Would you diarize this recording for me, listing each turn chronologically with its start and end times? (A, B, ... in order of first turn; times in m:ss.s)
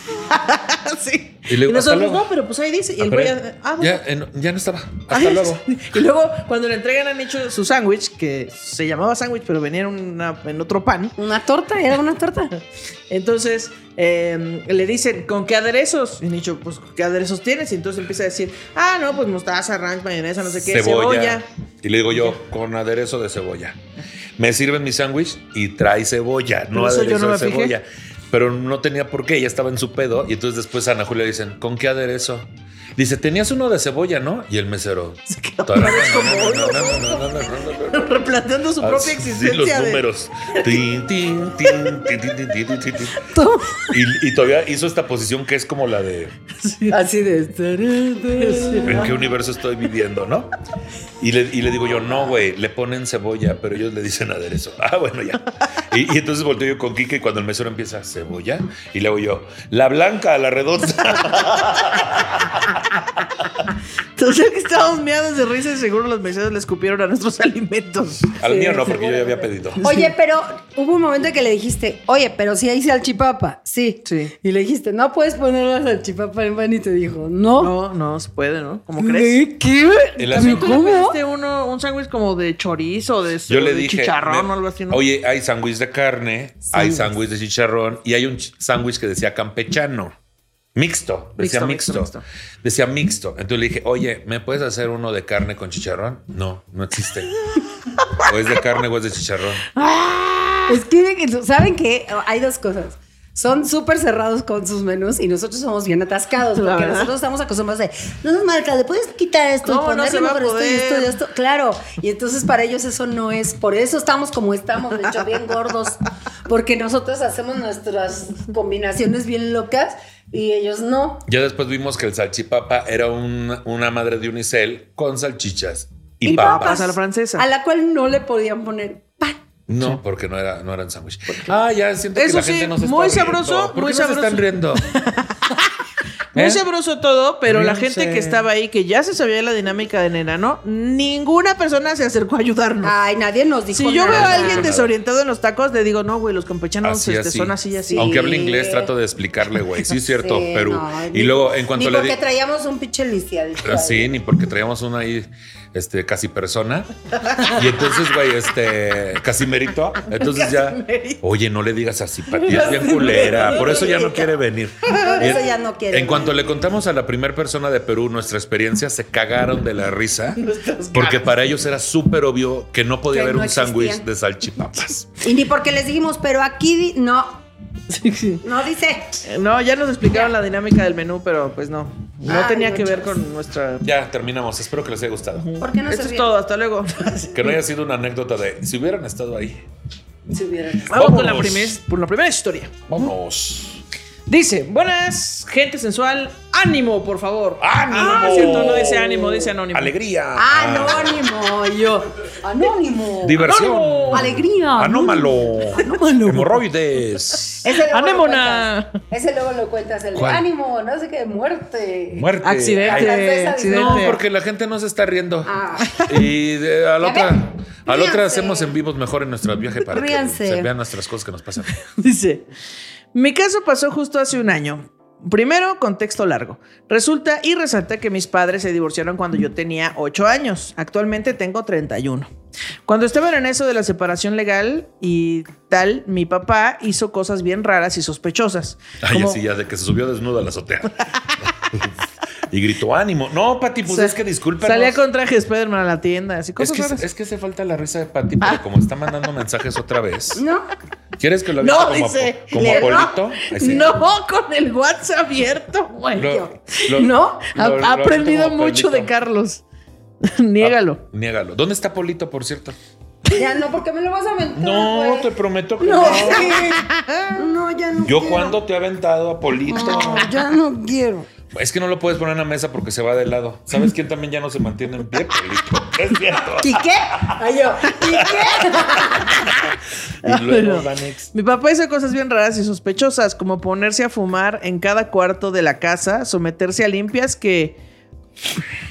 0:00.3-0:04.0 A
0:01.5-0:02.2 B
0:03.0-0:05.7 B
0:05.1-0:11.1 A
0:11.2-0:12.5 C
0:13.1-0:21.4 A
0:20.6-0:23.8 B
0:24.4-0:38.3 B
0:26.7-0:27.7 A
0:35.3-0:37.2 A
0:37.9-0:40.0 A
0:38.8-0:43.2 B
0:43.3-0:43.9 C
0:43.9-0:46.3 B
0:46.6-0:47.0 A
0:46.9-0:49.1 C
0:48.4-0:49.1 A
0:48.8-0:50.5 B
0:51.2-1:02.6 B
1:04.2-1:08.3 A
1:08.4-1:09.8 B
1:08.4-1:17.7 C
1:09.8-1:10.1 A
1:14.0-1:14.3 A
1:17.6-1:19.4 A
1:19.0-1:21.2 C
1:20.2-1:20.8 B
1:20.3-1:25.0 A
1:23.5-1:30.1 B
1:26.8-1:27.0 A
1:30.7-1:37.3 B
1:31.4-1:32.2 A
1:38.2-1:39.6 B
1:39.7-1:40.8 A
1:40.7-2:01.2 C
1:46.6-1:47.1 A
1:49.6-1:51.1 A
2:01.3-2:06.9 B
2:06.2-2:09.4 C
2:06.3-2:07.4 A
2:09.7-2:14.9 B
2:12.1-2:15.6 A
2:16.3-2:22.9 A
2:16.3-2:16.6 B
2:17.4-2:18.5 B
2:22.8-2:24.7 C
2:23.7-2:28.4 A
2:24.1-2:24.9 B
2:26.8-2:32.2 B
2:27.8-2:28.9 C
2:30.1-2:34.1 C
2:33.6-2:36.9 B
2:37.3-2:37.6 A
2:37.5-2:55.1 B
2:40.1-2:41.2 A
2:42.3-2:44.1 A
2:42.6-2:44.3 C
2:44.9-2:46.6 C
2:45.0-2:45.4 A
2:50.4-2:51.3 A
2:53.1-2:54.0 C
2:55.2-2:57.4 C
2:57.9-2:58.4 A
2:58.4-2:59.2 C
2:59.2-3:03.8 A
3:02.2-3:03.2 C
3:03.8-3:05.5 B
3:05.4-3:07.6 A
3:05.6-3:06.3 C
3:07.3-3:09.6 B
3:10.3-3:10.9 C
3:10.9-3:13.1 A
3:10.9-3:11.8 B
3:12.9-3:13.8 B
3:14.3-3:19.9 A
3:17.6-3:21.2 B
3:17.9-3:19.4 C
3:20.4-3:23.5 C
3:23.2-3:27.6 B
3:23.4-3:24.4 A
3:24.1-3:25.9 C
3:25.8-3:26.6 A
3:27.6-3:28.9 A
3:27.6-3:34.2 C
3:30.1-3:30.5 B
3:32.1-3:41.7 B
3:32.4-3:34.2 A
3:35.4-3:36.0 C
3:37.0-3:38.8 C
3:39.9-3:40.7 C
3:41.9-3:42.4 A
3:43.1-3:52.3 A
3:52.8-3:59.4 A
3:59.0-4:02.0 B
4:02.5-4:05.0 B
4:03.9-4:07.0 A
4:06.6-4:10.4 B
4:10.3-4:10.6 C
4:11.2-4:14.0 B
4:11.6-4:16.4 A
4:12.5-4:13.9 C
4:16.1-4:19.1 B
4:16.2-4:17.5 C
4:17.6-4:19.6 A
4:20.2-4:21.0 A
4:20.6-4:22.8 B
4:23.3-4:28.6 C
4:24.5-4:26.7 B
4:26.0-4:27.3 A
4:28.0-4:30.3 B
4:29.7-4:31.3 C
4:31.5-4:37.4 B
4:36.6-4:39.5 C
4:38.0-4:39.5 B
4:40.2-4:41.3 B
4:40.2-4:47.8 A